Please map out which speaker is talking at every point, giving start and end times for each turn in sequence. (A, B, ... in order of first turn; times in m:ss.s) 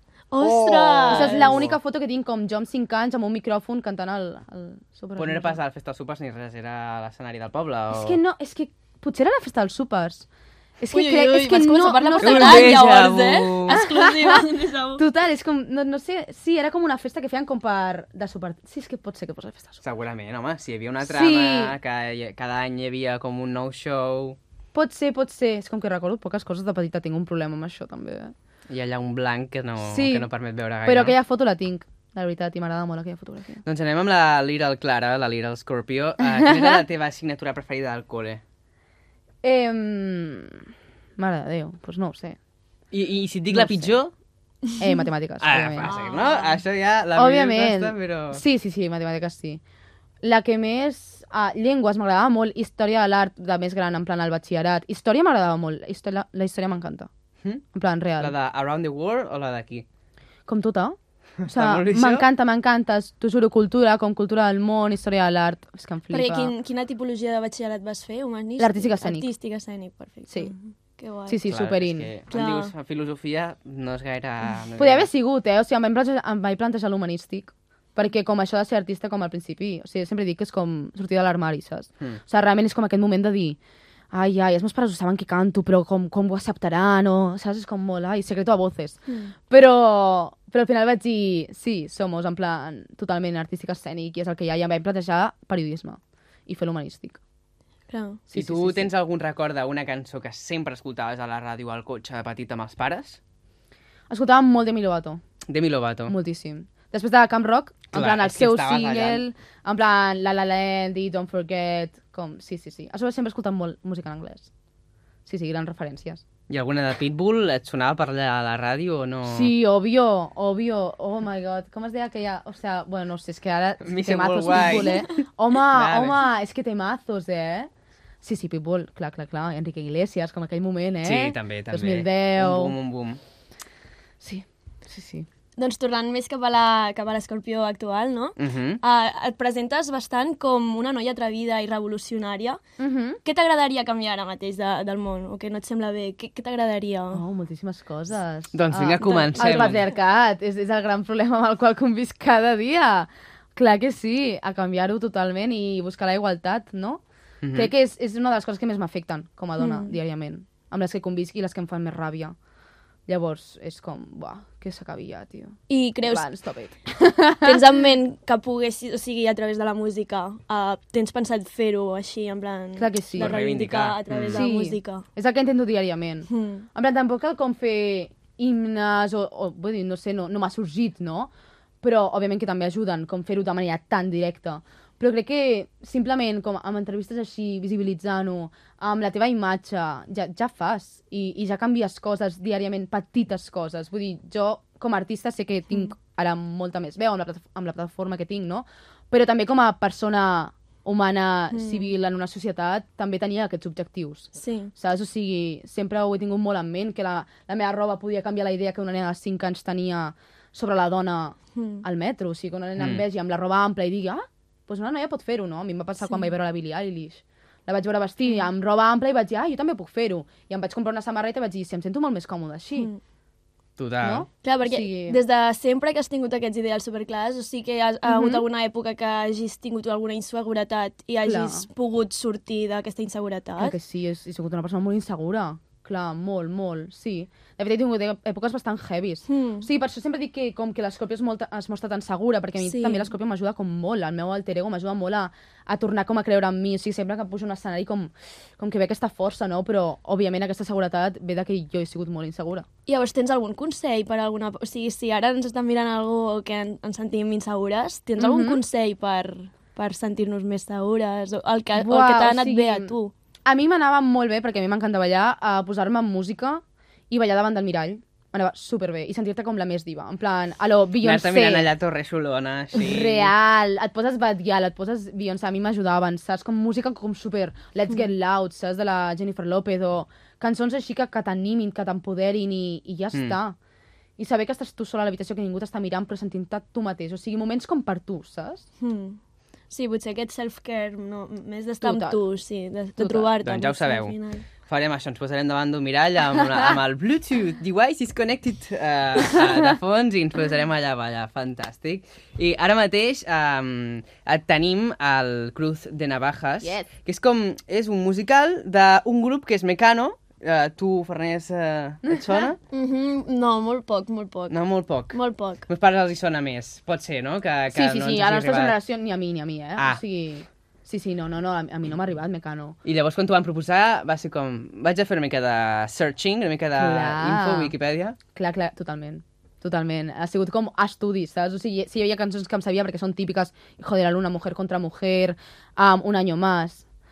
0:00.3-0:01.5 A
0:00.4-0:01.8 B
0:01.1-0:05.6 C
0:05.2-0:08.2 B
0:07.9-0:10.3 C
0:10.8-0:12.8 C
0:10.9-0:15.0 A
0:12.2-0:13.8 B
0:13.7-0:14.4 C
0:15.0-0:19.8 C
0:19.8-0:24.4 B
0:21.0-0:21.7 C
0:24.7-0:28.3 C
0:28.7-0:31.1 B
0:29.8-0:30.3 C
0:30.8-0:33.6 C
0:33.6-0:38.4 B
0:36.3-0:36.8 C
0:39.4-0:42.4 C
0:42.9-0:44.1 B
0:43.5-0:44.0 C
0:44.8-0:45.9 C
0:45.4-0:48.4 B
0:45.8-0:46.6 A
0:47.1-0:49.6 C
0:50.2-0:57.1 C
0:57.7-0:58.3 C
0:58.2-0:59.8 B
1:00.5-1:01.0 C
1:01.4-1:02.2 B
1:01.5-1:06.5 C
1:06.1-1:11.4 A
1:08.6-1:09.3 C
1:11.3-1:12.1 C
1:11.5-1:15.1 B
1:12.3-1:12.7 A
1:14.8-1:23.6 C
1:24.1-1:37.2 C
1:37.9-1:38.2 A
1:38.3-1:38.9 C
1:38.3-1:43.2 B
1:44.1-1:45.2 C
1:45.5-1:46.1 B
1:46.1-1:54.5 C
1:47.9-1:49.2 B
1:55.2-1:56.2 C
1:56.5-1:59.5 B
1:59.2-2:07.7 C
2:03.8-2:05.1 B
2:05.7-2:06.2 B
2:08.2-2:12.7 C
2:11.0-2:13.2 B
2:14.2-2:15.3 C
2:15.6-2:22.6 A
2:18.4-2:18.8 B
2:22.8-2:23.2 C
2:23.2-2:27.2 A
2:27.1-2:37.0 C
2:28.5-2:29.8 B
2:29.0-2:29.8 A
2:37.4-2:37.7 B
2:37.5-2:42.4 C
2:39.6-2:39.9 A
2:43.1-2:47.6 C
2:45.7-2:46.3 A
2:47.4-2:55.0 A
2:52.8-2:53.4 C
2:53.2-2:54.4 B
2:54.3-3:42.9 C
2:56.3-2:56.6 A
3:21.5-3:21.9 A
3:24.4-3:24.7 A
3:31.5-3:31.8 A
3:32.8-3:33.0 B
3:36.1-3:36.3 A
3:43.8-3:44.3 B
3:44.0-3:45.2 C
3:44.4-3:53.7 A
3:48.0-3:48.4 C
3:51.2-3:51.6 C
3:53.6-4:12.7 C
3:59.3-3:59.7 A
4:02.6-4:03.1 A
4:12.9-4:23.1 A
4:18.2-4:18.6 C
4:21.8-4:31.7 C
4:31.0-4:33.3 B
4:32.7-4:43.6 C
4:43.1-4:43.4 B
4:44.2-4:48.6 C
4:48.8-4:49.2 A
4:49.7-4:54.4 A
4:51.8-4:52.2 C
4:53.0-4:53.3 C
4:53.4-5:12.6 B
5:06.6-5:06.9 C
5:12.0-5:12.5 C
5:12.7-5:14.6 A
5:14.5-5:18.8 B
5:15.1-5:15.6 A
5:17.7-5:22.8 C
5:22.8-5:28.2 B
5:26.8-5:27.7 C
5:28.3-5:36.8 C